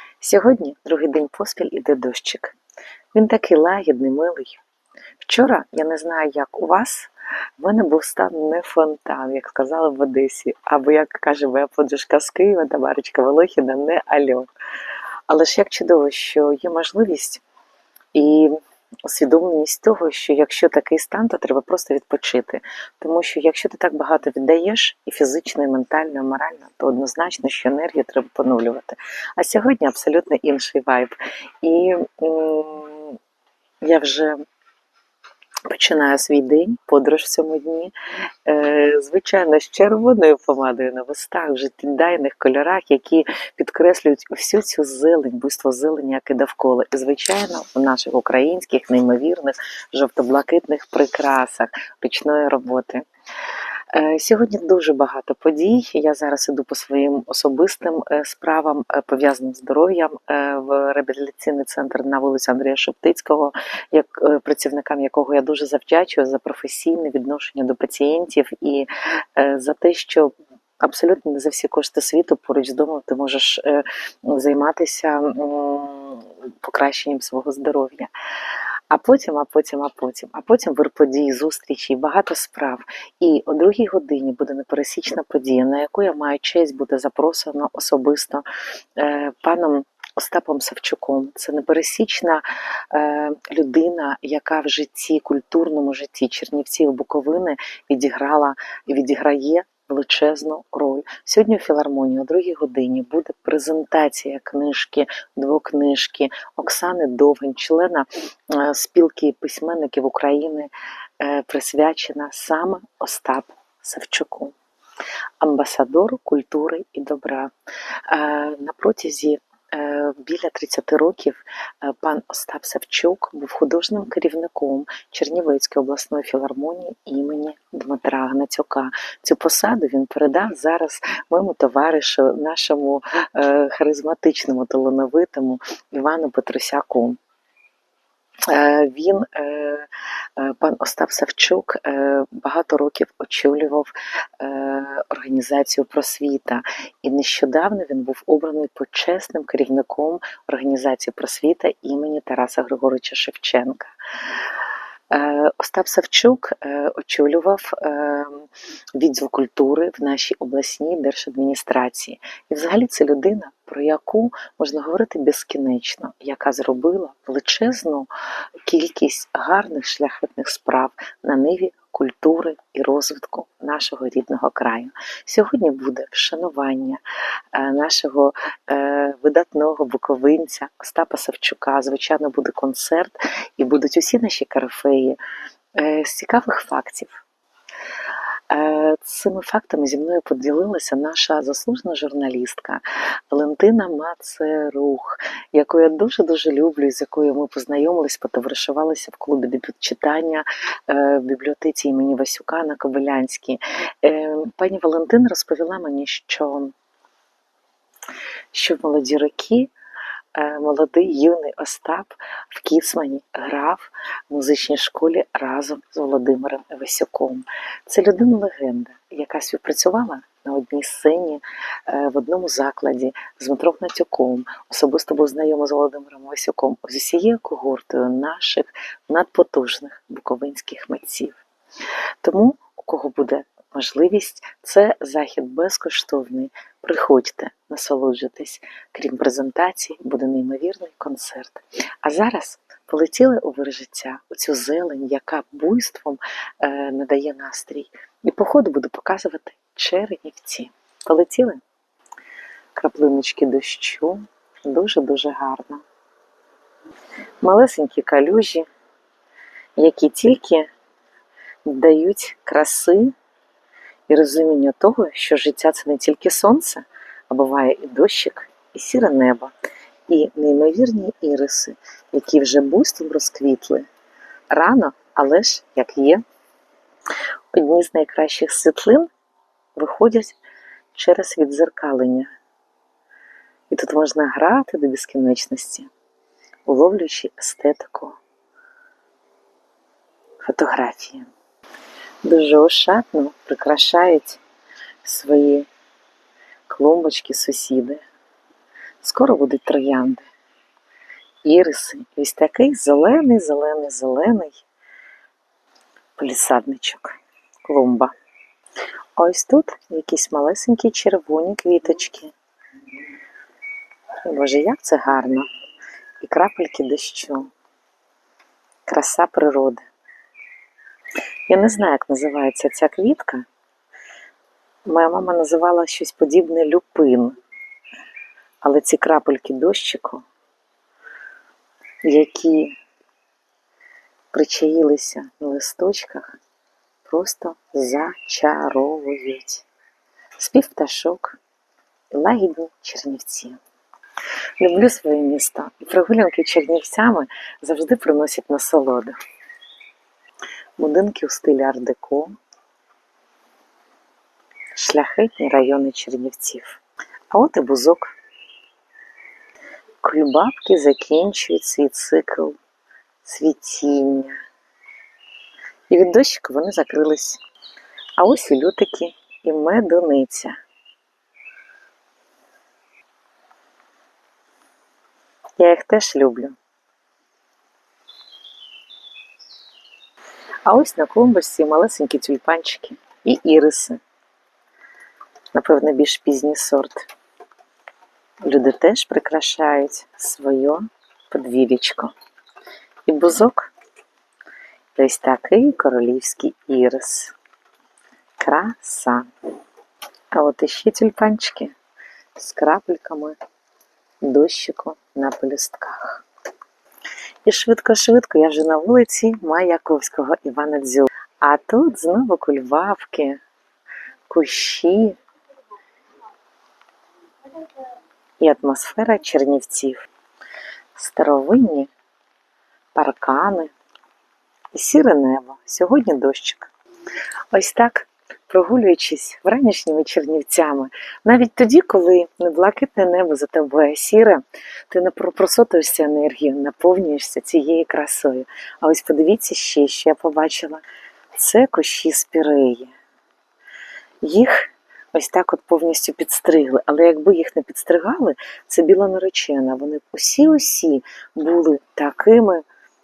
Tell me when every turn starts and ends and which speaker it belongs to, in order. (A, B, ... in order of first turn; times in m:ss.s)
0:00.2-0:02.6 A
0:03.1-0:04.6 A
0:05.2-0:14.5 A
0:15.3-0:17.4 A
0:18.1-0:33.2 A
0:33.8-0:34.4 A
0:35.7-0:37.9 A
0:38.5-0:53.0 A
0:53.9-1:18.1 A
1:18.9-1:54.5 A
1:55.4-1:57.5 A
1:58.1-2:17.2 A
2:18.5-2:34.4 A
2:35.1-2:48.1 A
2:48.7-2:57.0 A
2:57.5-3:05.2 A
3:05.8-3:07.2 A
3:08.5-3:26.7 A
3:28.5-3:29.7 A
3:30.4-3:51.4 A
3:52.2-4:11.6 A
4:12.7-4:15.8 A
4:17.4-4:18.7 A
4:19.8-4:20.7 A
4:21.6-4:23.1 A
4:24.1-4:29.5 A
4:30.1-4:33.9 A
4:34.5-4:36.2 A
4:37.5-4:39.1 A
4:39.8-4:40.4 A
4:40.9-4:42.3 A
4:43.7-4:45.9 A
4:46.7-4:48.2 A
4:50.4-4:51.3 A
4:52.2-4:54.4 A
4:55.0-4:55.7 A
4:56.7-4:58.0 A
4:59.0-5:00.2 A
5:01.4-5:04.6 A
5:06.2-5:08.1 A
5:09.2-5:12.3 A
5:14.2-5:15.5 A
5:16.2-5:17.5 A
5:18.9-5:19.8 A
5:21.5-5:23.5 A
5:24.9-5:27.4 A
5:28.6-5:30.2 A
5:32.0-5:32.8 A
5:34.3-5:36.4 A
5:37.1-5:39.6 A
5:40.4-5:41.4 A
5:42.1-5:43.6 A
5:44.6-5:49.2 A
5:50.8-5:52.4 A
5:54.8-5:56.8 A
5:57.3-5:58.1 A
6:00.0-6:02.6 A
6:03.2-6:04.4 A
6:05.9-6:07.4 A
6:08.2-6:10.6 A
6:15.6-6:16.6 A
6:20.7-6:24.0 A
6:25.5-6:27.1 A
6:28.4-6:32.1 A
6:33.1-6:33.7 A
6:35.0-6:37.3 A
6:38.4-6:39.3 A
6:40.3-6:41.8 A
6:42.4-6:43.4 A
6:44.2-6:46.2 A
6:47.5-6:53.4 A
6:54.3-6:55.2 A
6:58.4-7:00.1 A
7:01.0-7:01.9 A
7:03.0-7:03.7 A
7:04.7-7:06.7 A
7:07.5-7:20.8 A
7:21.4-7:22.9 A
7:24.2-7:32.6 A